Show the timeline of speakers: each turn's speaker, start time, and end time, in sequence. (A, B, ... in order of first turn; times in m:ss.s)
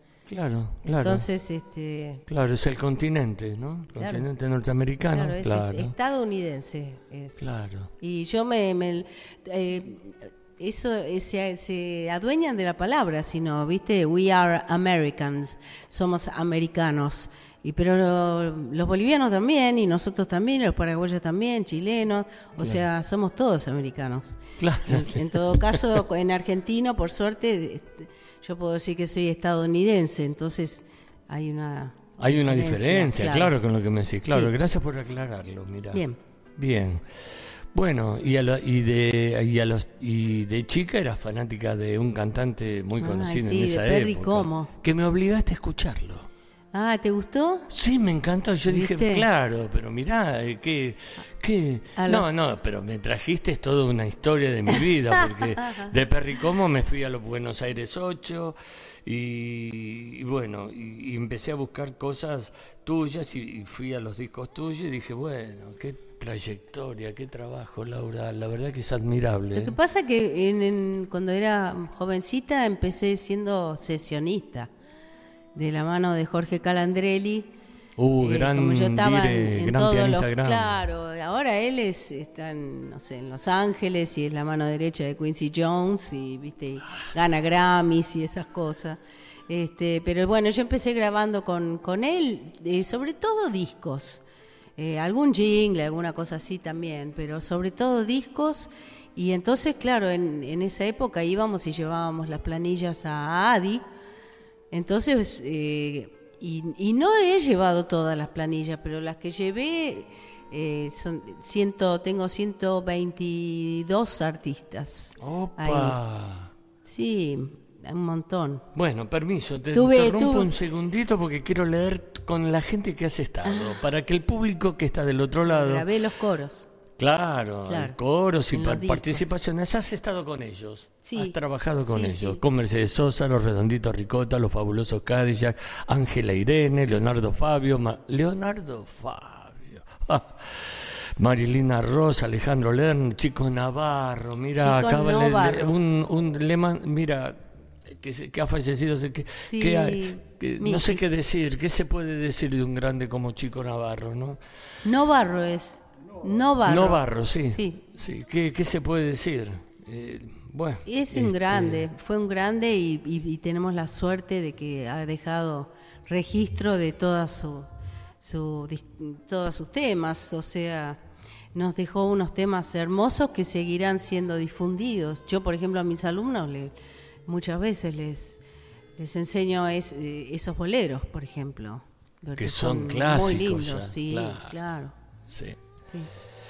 0:00.3-0:01.2 A
0:01.0-0:02.2 B
0:02.3-0:05.9 A
0:03.9-0:04.2 B
0:05.1-0:33.5 B
0:07.4-0:07.9 A
0:24.6-0:25.8 A
0:32.2-0:36.0 A
0:35.9-0:36.2 B
0:36.6-0:37.0 A
0:37.7-0:46.3 A
0:43.0-0:44.7 B
0:46.7-0:47.7 B
0:47.7-1:09.7 A
0:48.7-0:49.2 B
0:52.0-0:52.2 B
0:55.4-0:55.9 B
1:09.5-1:14.7 B
1:15.5-1:17.5 B
1:18.0-1:20.8 A
1:18.2-1:34.2 B
1:34.8-1:43.8 B
1:44.7-1:56.0 B
1:55.2-1:56.5 A
1:56.8-1:58.6 B
1:58.7-2:05.9 A
1:59.7-2:00.5 B
2:03.4-2:03.8 B
2:05.5-2:06.7 B
2:07.0-2:34.4 A
2:07.7-2:08.0 B
2:08.5-2:09.3 B
2:11.0-2:11.4 B
2:11.9-2:12.4 B
2:24.6-2:25.7 B
2:29.4-2:31.0 B
2:34.8-2:37.8 B
2:36.6-2:41.9 A
2:40.8-2:47.7 B
2:48.2-2:51.0 B
2:51.5-2:56.7 B
2:57.3-2:58.4 B
2:59.0-3:04.9 B
3:02.4-3:04.5 A
3:05.3-3:05.6 A